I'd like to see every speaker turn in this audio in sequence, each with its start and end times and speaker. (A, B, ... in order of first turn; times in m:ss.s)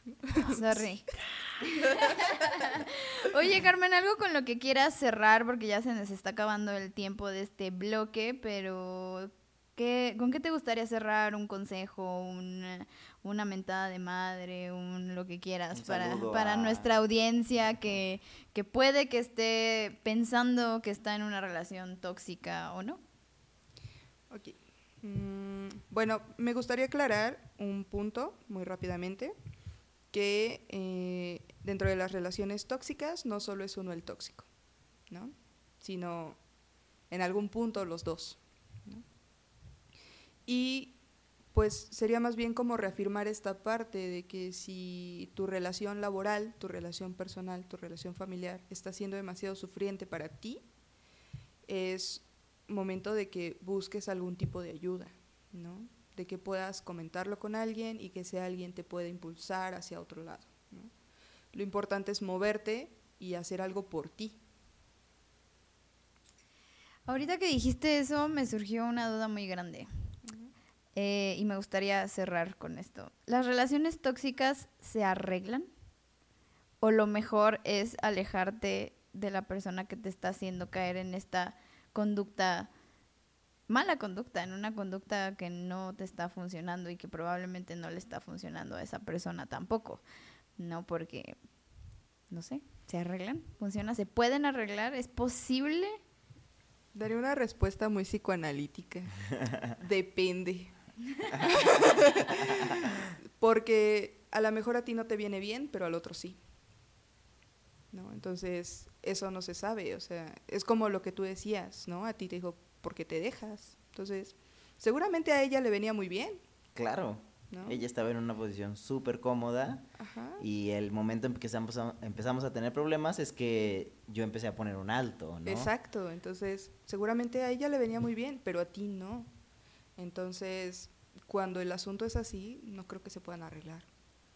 0:00.3-0:00.9 A
0:00.3-0:23.0 B
0:15.7-0:17.0 C
0:24.3-0:29.4 A
0:30.1-0:34.5 A
0:35.1-0:36.4 A
0:37.1-0:39.0 A
0:40.5-0:41.0 A
0:41.5-0:50.6 A
0:51.7-1:00.9 A
1:01.5-1:04.4 A
1:07.1-1:09.9 B
1:10.2-1:10.5 A
1:11.0-1:15.7 B
1:16.8-1:22.7 B
1:23.7-1:30.0 B
1:30.6-1:31.4 B
1:32.3-1:36.0 B
1:36.9-1:40.7 A
1:41.3-1:43.1 C
1:41.4-1:42.8 A
1:43.4-1:46.4 A
1:47.9-1:56.4 A
1:56.8-1:59.9 C
1:57.5-1:57.8 A
2:00.0-2:00.4 A
2:00.4-2:05.7 C
2:05.4-2:09.3 A
2:10.0-2:13.9 A